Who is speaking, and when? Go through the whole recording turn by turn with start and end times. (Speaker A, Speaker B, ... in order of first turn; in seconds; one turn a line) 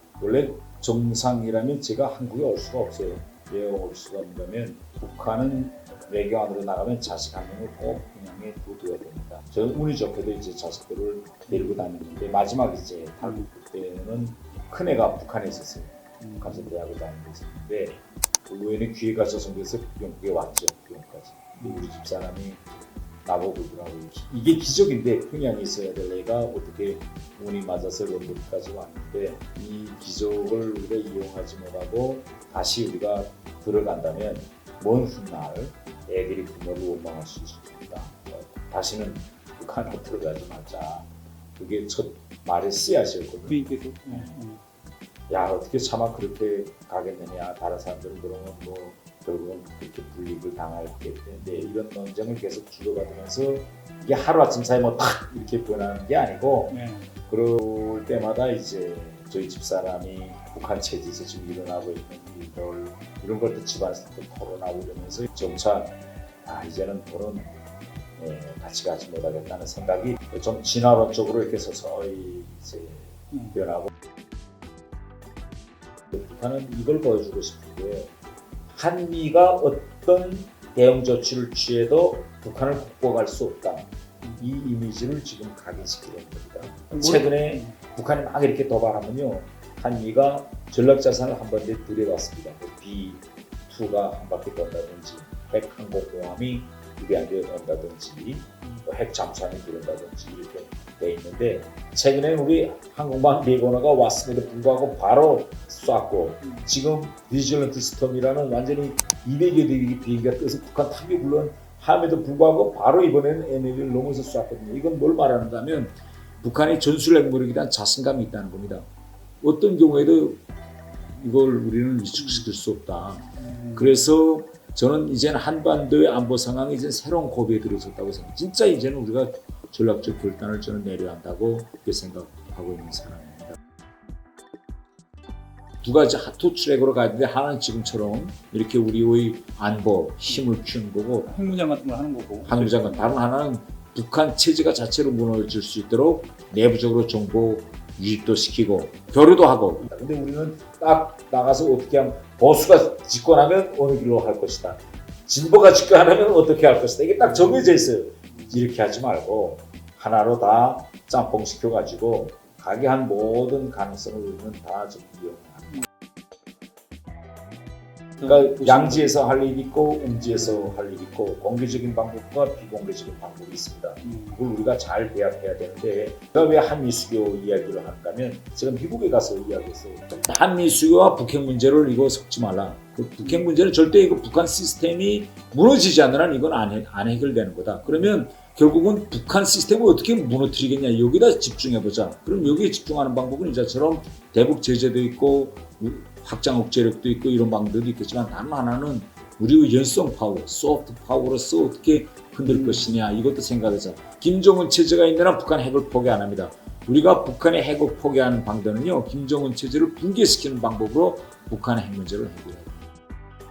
Speaker A: 0.2-22.6
Speaker B: 11.5-11.8
Speaker B: 13.2-13.5
Speaker B: 16.2-16.7
Speaker B: 21.6-21.9
Speaker A: 23.2-44.3
Speaker B: 43.5-44.6
Speaker A: 45.3-67.5
Speaker B: 56.7-57.1
Speaker A: 68.2-73.9
Speaker A: 76.1-78.1
Speaker A: 78.7-118.9
Speaker B: 86.9-87.7
Speaker B: 106.4-106.7
Speaker A: 119.4-120.4
Speaker A: 121.1-133.6
Speaker B: 122.2-122.5
Speaker B: 123.4-124.0
Speaker A: 135.8-141.3
Speaker B: 141.2-143.1
Speaker A: 142.4-165.8
Speaker B: 168.2-169.1
Speaker A: 168.2-212.8
Speaker B: 174.0-174.4
Speaker B: 183.2-183.4
Speaker B: 202.4-202.8